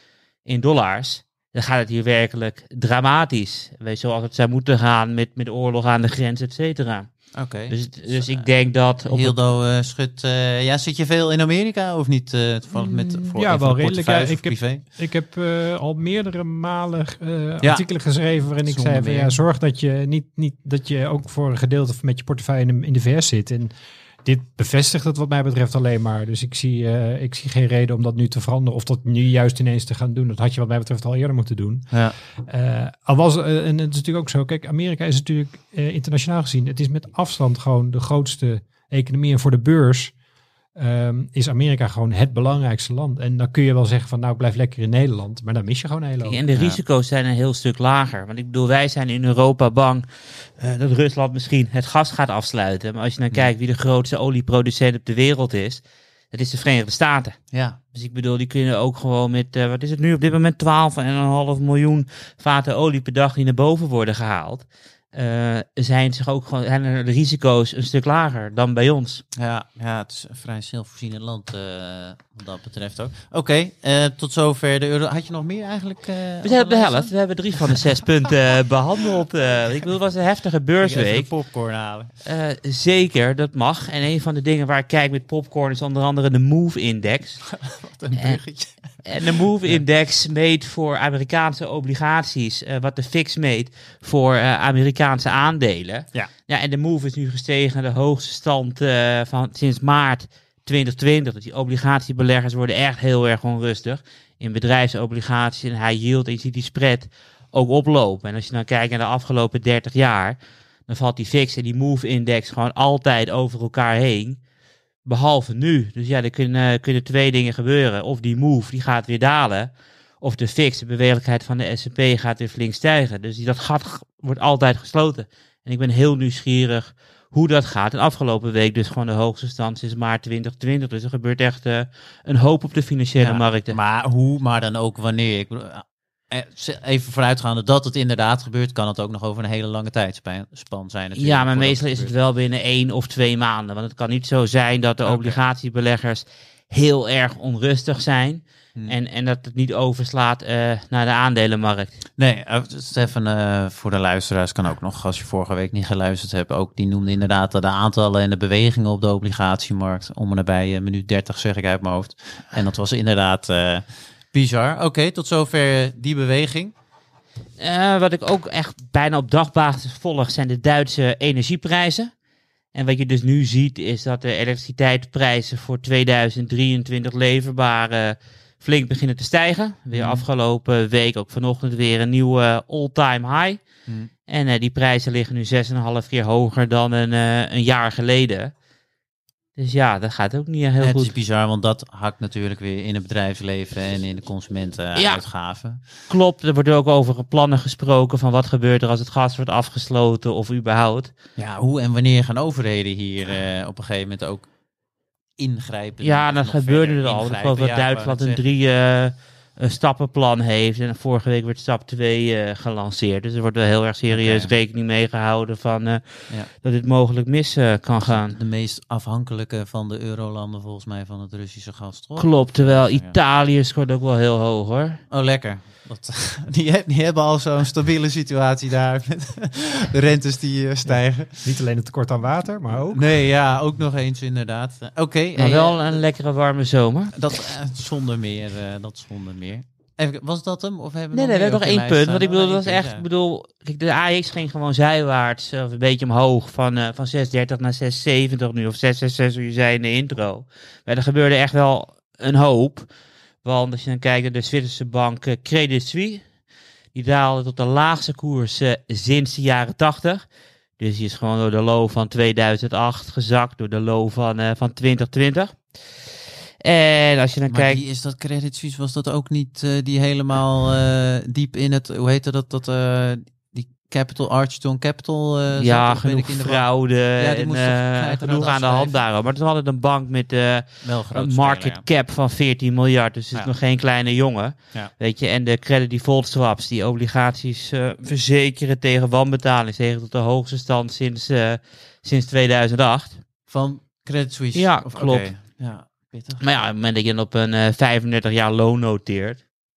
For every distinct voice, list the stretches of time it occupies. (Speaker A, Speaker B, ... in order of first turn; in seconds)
Speaker A: 0.4-9.4, 46.2-69.2, 76.4-81.6, 82.2-114.4, 115.0-133.8, 141.2-152.0, 167.6-172.1, 172.7-183.7, 184.3-188.5, 189.6-191.1, 194.9-201.1, 206.0-218.4, 222.2-225.0, 235.3-237.1, 241.1-252.9, 253.4-256.2, 256.9-260.2, 260.8-265.8, 266.6-267.8, 275.6-293.2, 294.5-295.5, 296.4-299.5
Speaker B: 7.3-14.8, 17.6-19.4, 31.9-32.2, 46.5-46.8, 57.5-57.8, 69.3-77.1, 80.8-82.1, 87.5-89.8, 133.2-142.1, 145.0-145.4, 152.2-166.7, 179.9-180.2, 190.8-195.8, 201.4-204.5, 205.4-208.4, 214.1-214.5, 218.1-223.1, 225.1-231.4, 232.9-236.0, 237.1-243.0, 267.5-279.0, 280.8-281.8, 293.5-296.4
Speaker C: 12.7-23.7, 24.2-40.1, 40.7-46.4, 231.3-233.2